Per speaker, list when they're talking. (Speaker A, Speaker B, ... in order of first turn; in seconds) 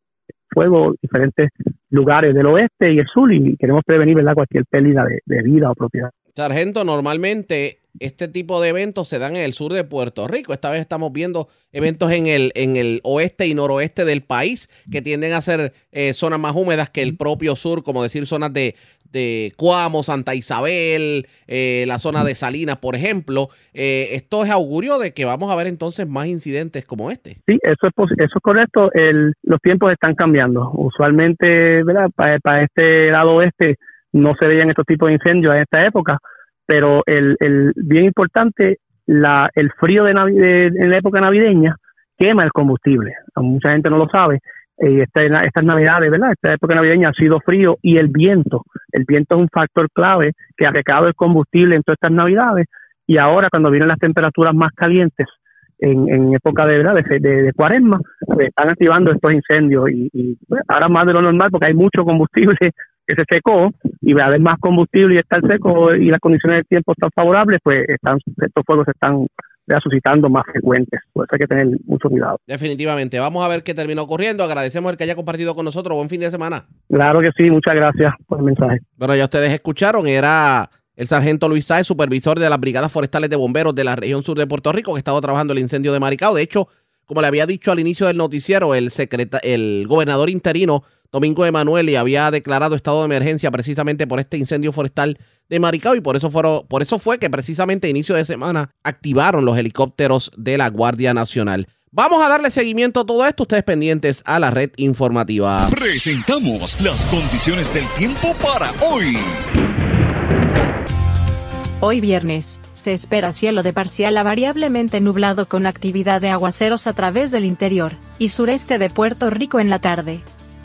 Speaker A: 0.5-6.1, 27.5-72.4, 76.9-78.8
Speaker B: 6.3-27.4, 72.5-76.7, 79.0-105.7
Speaker C: 105.7-109.4
Speaker D: 111.8-120.2